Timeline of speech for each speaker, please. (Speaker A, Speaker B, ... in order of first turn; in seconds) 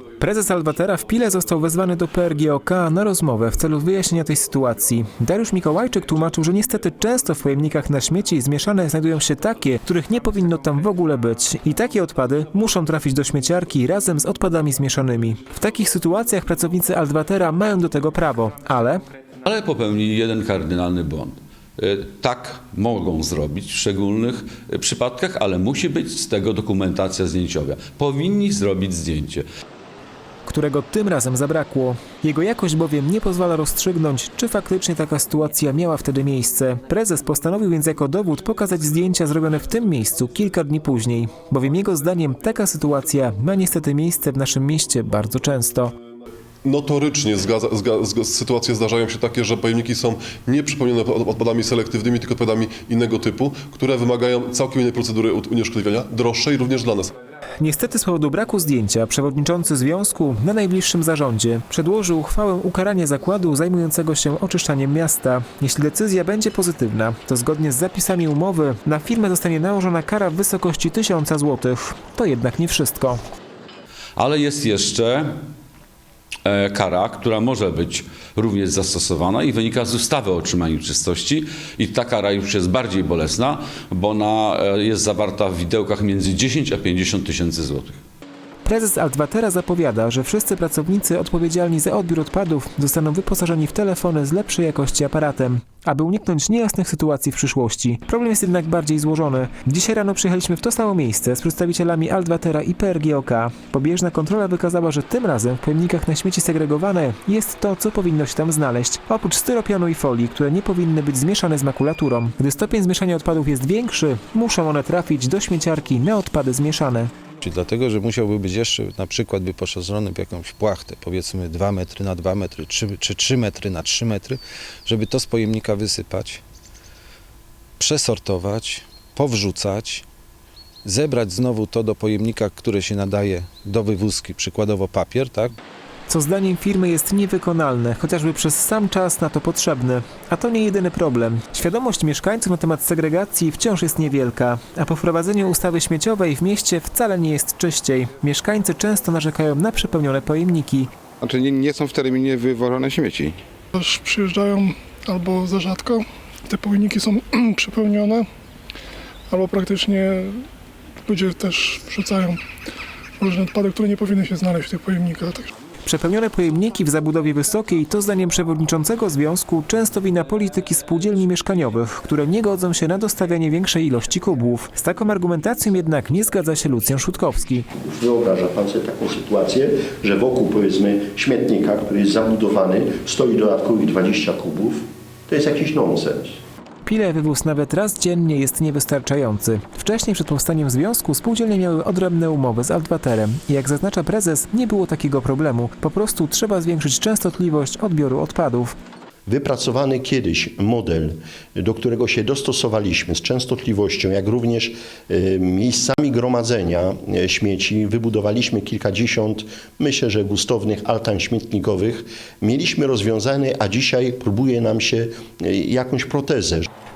Speaker A: 0.2-19.0, 30.4-45.9, 57.6-73.2, 88.7-117.1, 136.1-150.9, 165.8-177.7, 186.8-198.7
Speaker B: 19.4-29.4, 74.2-75.3, 76.4-88.0
Speaker C: 46.6-57.1
Speaker D: 117.4-126.4, 127.8-130.0, 130.8-135.5
Speaker E: 151.2-153.3
Speaker F: 153.7-158.2, 159.3-160.4, 161.1-162.4, 163.2-165.5
Speaker G: 177.7-186.4, 199.3-216.7